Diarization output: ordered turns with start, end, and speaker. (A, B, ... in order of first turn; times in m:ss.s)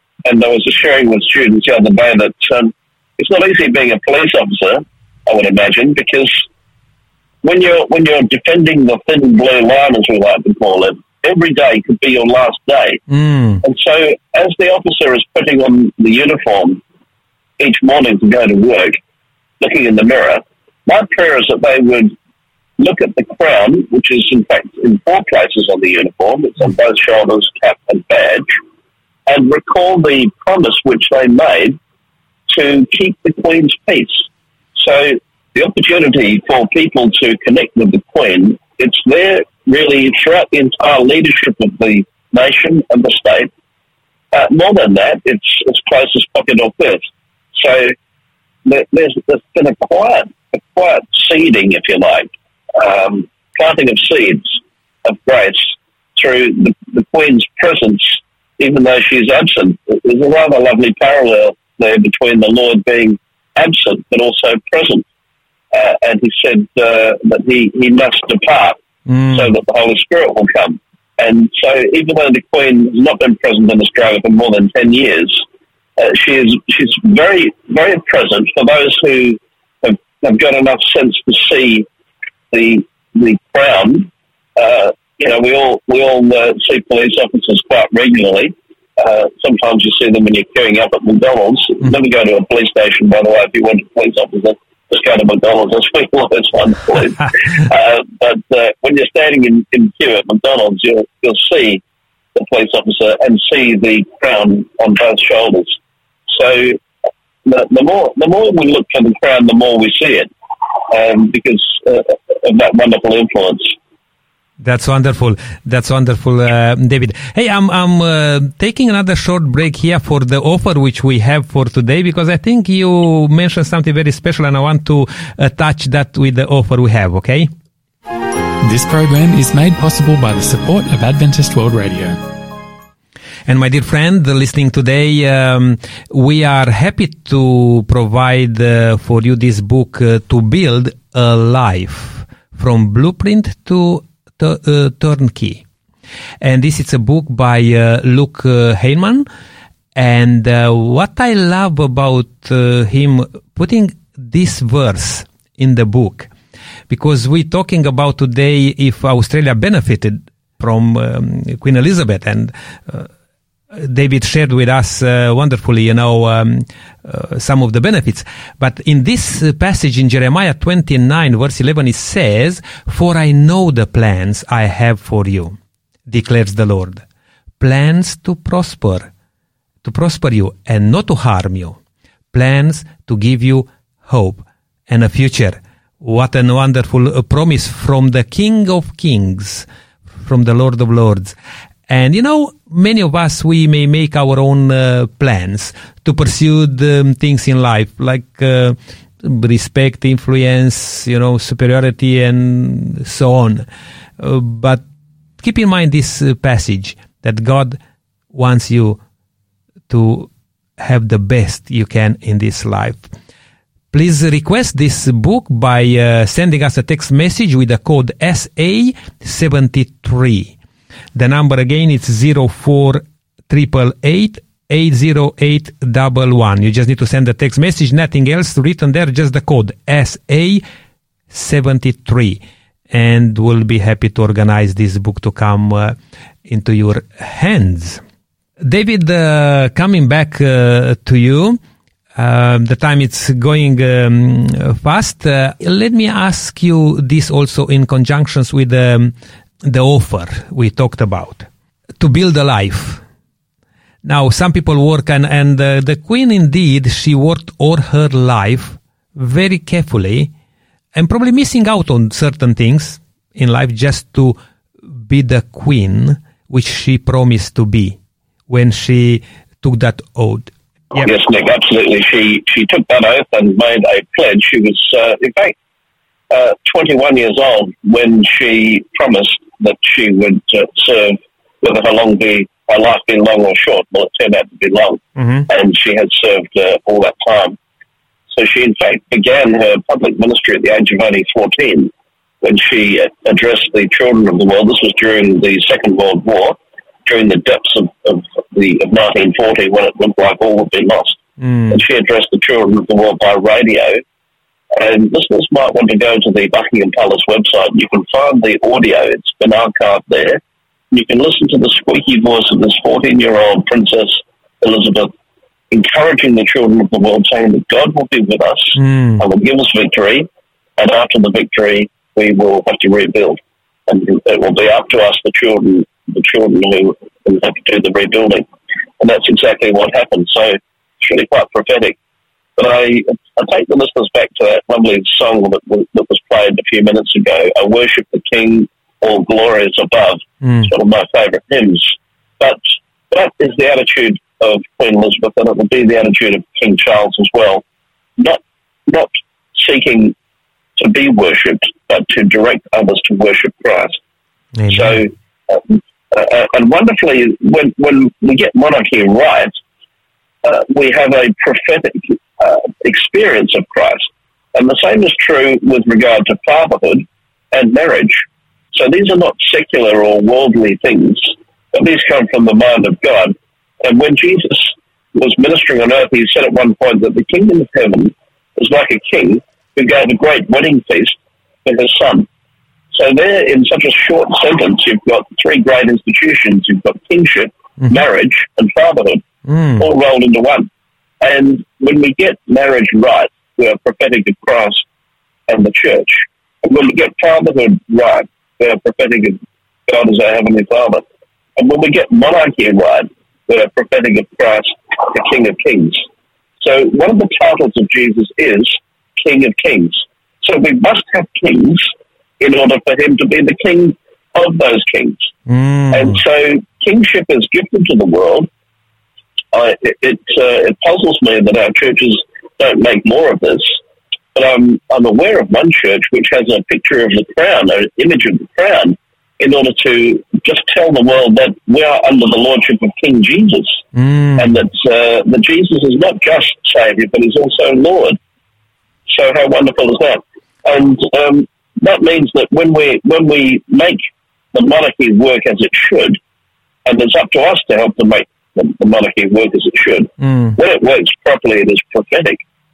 0:00.2-0:06.4 A
0:07.4-0:13.0 A
0:13.1-0:13.6 B
0:13.6-0:16.8 A
0:17.6-0:19.0 A
0:19.6-0:22.1 A
0:22.8-0:28.6 A
0:29.3-0:31.8 A
0:32.5-0:43.5 A
0:44.3-0:47.0 A
0:47.5-0:47.9 A
0:48.6-1:05.0 A
1:05.7-1:08.8 A
1:09.1-1:09.5 B
1:09.3-1:15.4 A
1:16.0-1:21.9 A
1:22.5-1:41.8 A
1:42.3-1:45.8 A
1:46.3-1:46.8 A
1:47.4-1:50.3 A
1:50.9-1:53.7 A
1:54.6-2:07.5 B
2:08.6-2:12.2 C
2:13.5-2:25.6 B
2:26.4-2:29.2 B
2:29.9-2:36.3 B
2:36.9-2:43.1 B
2:43.7-2:55.6 B
2:56.1-2:57.0 B
2:57.6-2:59.1 B
2:59.8-3:01.8 B
3:02.3-3:09.6 B
3:10.2-3:11.4 B
3:11.9-3:23.6 B
3:24.2-3:24.8 B
3:25.4-3:27.8 B
3:28.3-3:29.0 B
3:29.9-3:33.1 B
3:33.9-3:40.5 B
3:41.1-3:50.6 B
3:51.3-3:56.0 B
3:56.5-3:58.0 B
3:58.6-4:01.6 B
4:02.1-4:11.5 B
4:12.0-4:13.0 B
4:14.0-4:20.3 B
4:20.9-4:24.4 B
4:24.9-4:28.0 B
4:28.5-4:31.1 B
4:31.0-4:35.5 A
4:36.3-4:47.6 A
4:45.2-4:45.5 B
4:48.3-4:51.9 A
4:52.4-5:04.0 A
5:01.4-5:01.7 B
5:04.7-5:10.4 A
5:10.9-5:15.1 A
5:15.7-5:20.3 A
5:18.8-5:19.2 B
5:20.8-5:28.4 A
5:29.0-5:32.0 A
5:32.6-5:47.6 A
5:48.2-5:50.1 A
5:50.8-5:54.0 A
5:54.6-5:55.0 B
5:54.7-5:59.5 A
6:00.4-6:22.3 A
6:22.9-6:29.2 A
6:29.4-6:29.8 B
6:29.8-6:30.7 A
6:31.2-6:34.8 A
6:35.5-6:41.0 A
6:41.6-6:46.0 A
6:46.6-6:55.3 A
6:55.5-6:56.2 B
6:55.9-6:58.5 A
6:59.5-7:03.8 A
7:04.3-7:13.8 A
7:13.9-7:14.6 B
7:14.4-7:18.2 A
7:19.1-7:24.0 A
7:24.5-7:26.2 A
7:26.8-7:32.4 A
7:30.2-7:30.5 B